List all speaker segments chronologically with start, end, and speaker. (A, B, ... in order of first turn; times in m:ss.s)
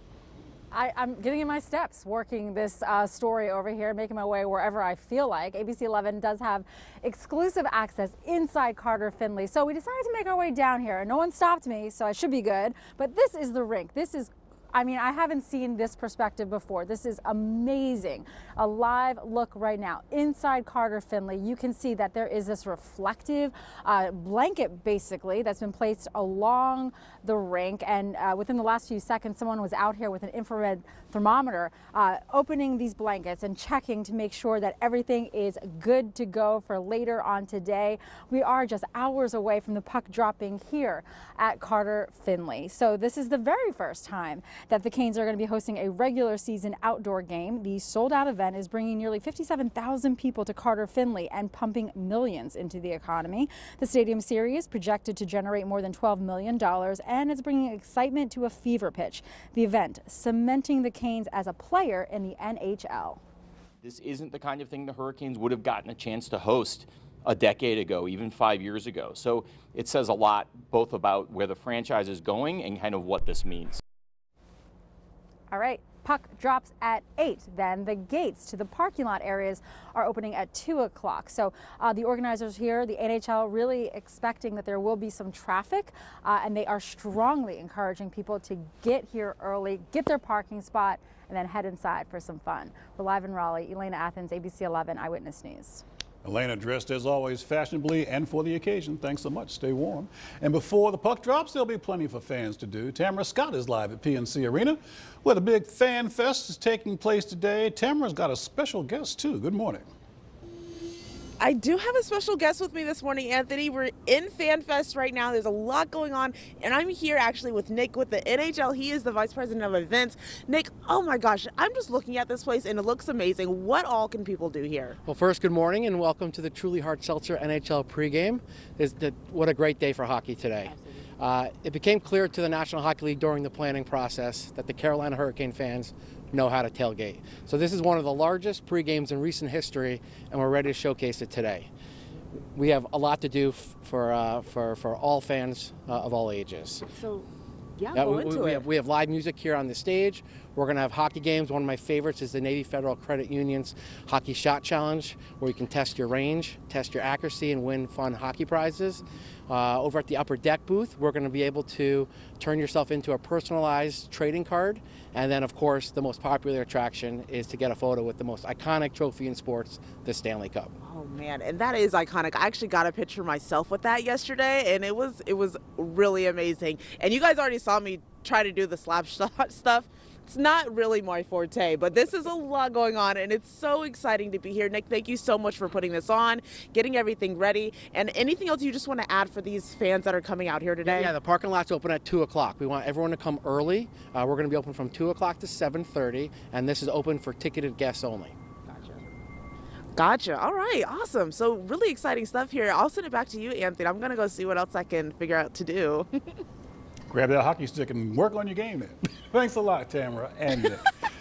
0:00.7-1:03.2 A
1:03.8-1:13.8 B
1:15.5-1:35.8 A
1:36.2-1:49.9 C
1:51.4-2:05.0 D
2:05.0-2:21.7 E
2:22.3-2:26.8 E
2:27.0-2:27.2 D
2:27.8-2:28.4 D
2:27.9-2:50.7 E
2:50.8-3:11.1 D
3:10.8-3:18.4 E
3:18.7-3:19.0 D
3:20.0-3:26.4 D
3:27.1-3:30.9 C